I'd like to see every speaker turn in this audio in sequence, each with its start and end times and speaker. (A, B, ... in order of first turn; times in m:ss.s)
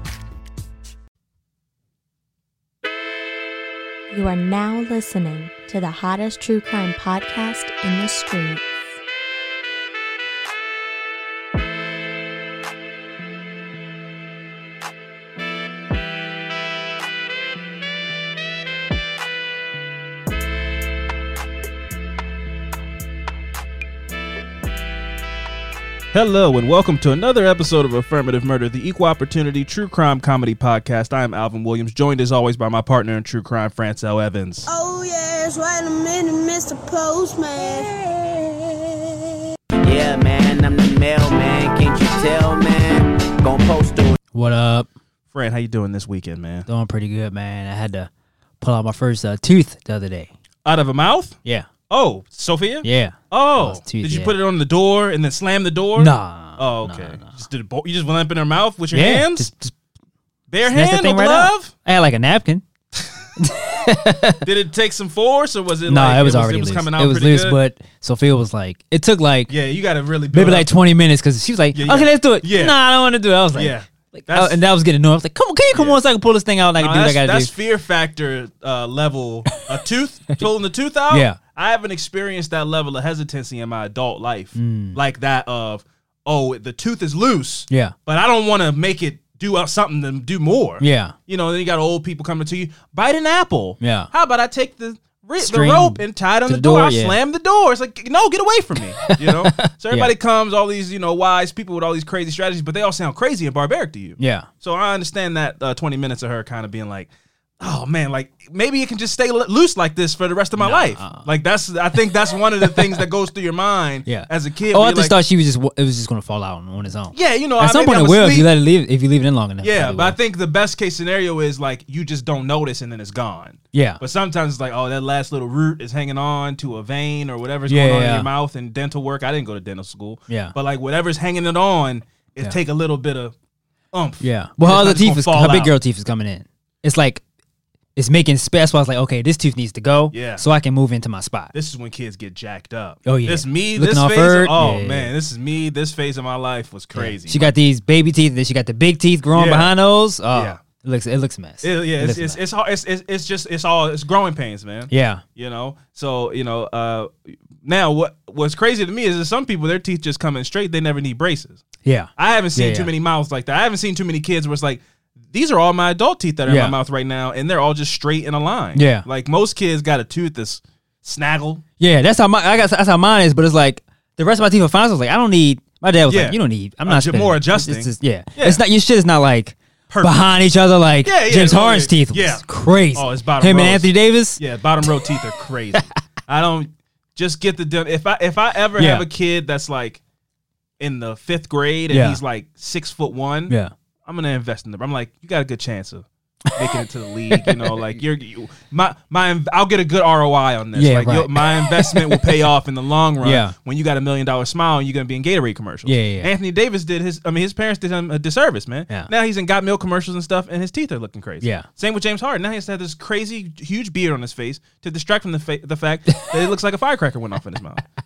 0:04.1-0:09.0 A
0:26.1-0:34.7 B
0:34.7-0:37.9 C
0:39.8-0:44.2 D
0:44.3-0:44.9 E
0:45.3-0:46.7 B
0:46.7-0:48.1 E
0:48.6-0:50.3 E
0:50.6-0:51.4 B
0:51.9-0:59.5 B
0:52.8-0:54.3 E
0:56.0-0:57.3 E
0:58.9-0:59.7 E
1:00.5-1:01.7 B
1:00.6-1:02.6 E
1:03.4-1:04.4 E
1:04.4-1:07.6 B
1:05.9-1:09.5 E
1:09.5-1:10.7 B
1:10.3-1:17.5 E
1:11.7-1:12.8 B
1:13.5-1:14.6 B
1:15.7-1:16.0 B
1:16.8-1:55.1 B
1:21.1-1:21.4 E
1:24.6-1:25.0 E
1:30.8-1:31.1 E
1:33.8-1:34.1 E
1:35.4-1:37.2 E
1:39.0-1:40.1 E
1:44.2-1:44.5 E
1:50.6-1:51.2 E
1:52.6-1:53.0 E
1:54.0-2:00.2 E
1:57.1-1:58.5 B
1:59.6-2:13.3 B
2:03.7-2:04.0 E
2:07.7-2:08.3 E
2:10.3-2:10.5 E
2:13.9-2:15.7 B
2:14.2-2:17.2 E
2:18.0-2:21.5 E
2:20.1-2:20.4 B
2:21.5-2:27.5 B
2:23.0-2:25.1 E
2:26.9-2:32.4 E
2:29.3-2:29.7 B
2:30.3-2:30.6 B
2:31.6-2:41.6 B
2:34.9-2:35.2 E
2:41.8-2:42.9 E
2:42.2-2:51.6 B
2:46.4-2:46.7 E
2:48.7-2:49.0 E
2:51.8-3:05.0 E
2:56.1-2:58.6 B
2:59.9-3:00.2 B
3:01.0-3:10.0 B
3:08.8-3:09.0 E
3:10.8-3:13.5 B
3:11.9-3:12.2 E
3:14.0-3:37.8 B
3:17.3-3:17.8 E
3:20.7-3:22.3 E
3:23.2-3:23.5 E
3:25.8-3:26.3 E
3:31.4-3:31.7 E